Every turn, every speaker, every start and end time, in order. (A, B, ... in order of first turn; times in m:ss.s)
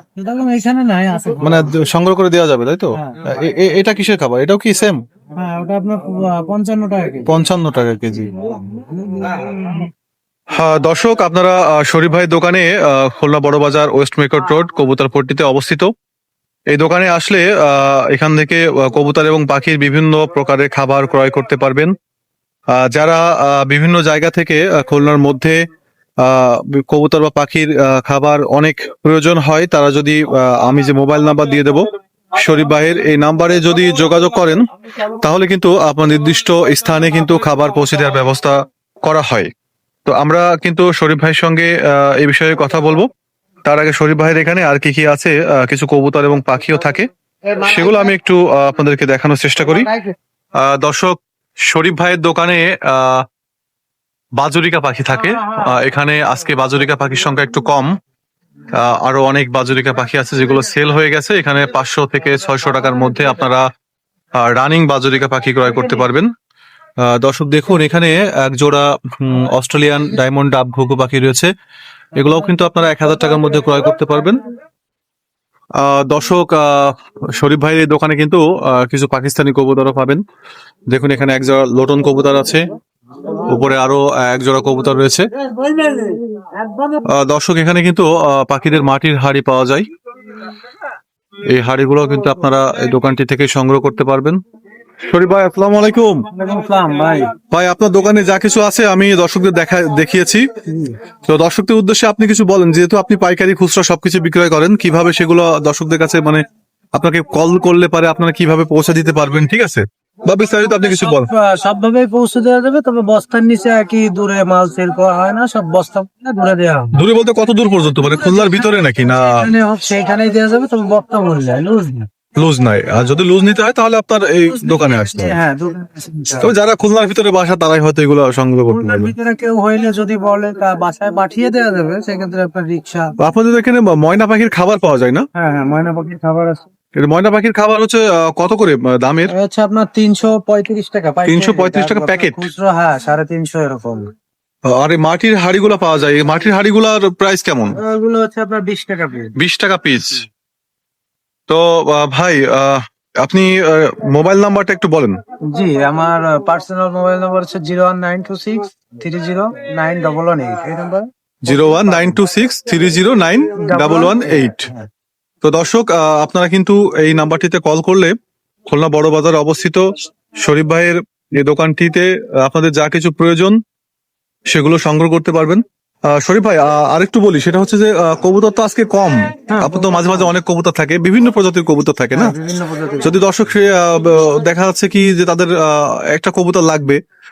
0:00.2-0:01.7 A
0:01.4-0:05.0 B
0:05.4-0:07.3 A
0:07.2-0:08.3 B
0:08.7-0:09.9 A
0:10.5-0:15.9 B
0:16.7-0:21.9 B
0:22.7-0:25.6 B
0:26.2-0:39.5 B
0:40.0-0:43.1 B
0:43.6-0:47.1 B
0:47.5-0:48.1 A
0:47.6-0:49.9 B
0:49.7-0:50.1 A
0:50.6-0:53.2 B
0:54.4-0:57.9 B
0:58.7-1:03.6 B
1:04.3-1:06.3 B
1:07.0-1:11.5 B
1:12.1-1:14.4 B
1:15.8-1:20.2 B
1:20.9-1:22.6 B
1:23.4-1:25.2 B
1:25.4-1:27.0 A
1:27.1-1:29.9 B
1:31.5-1:34.4 B
1:35.0-1:36.2 B
1:36.3-1:37.3 A
1:37.5-1:40.4 B
1:41.2-1:46.4 B
1:46.9-1:51.3 B
1:50.6-1:57.0 A
1:56.9-1:59.5 B
1:58.0-2:02.1 A
2:02.4-2:05.4 B
2:04.5-2:06.5 A
2:06.4-2:09.1 B
2:08.7-2:13.1 A
2:13.2-2:15.2 B
2:15.3-2:16.6 A
2:16.9-2:19.3 B
2:19.3-2:24.1 A
2:21.3-2:22.5 B
2:24.7-2:27.8 B
2:27.8-2:29.3 A
2:29.4-2:30.2 B
2:31.5-2:35.2 B
2:35.5-2:41.1 A
2:41.4-2:44.7 B
2:43.6-2:44.9 A
2:45.4-2:48.1 B
2:48.7-2:49.8 B
2:50.4-2:53.6 B
2:54.5-3:02.3 B
2:59.5-3:00.3 A
3:02.1-3:03.2 A
3:03.0-3:07.0 B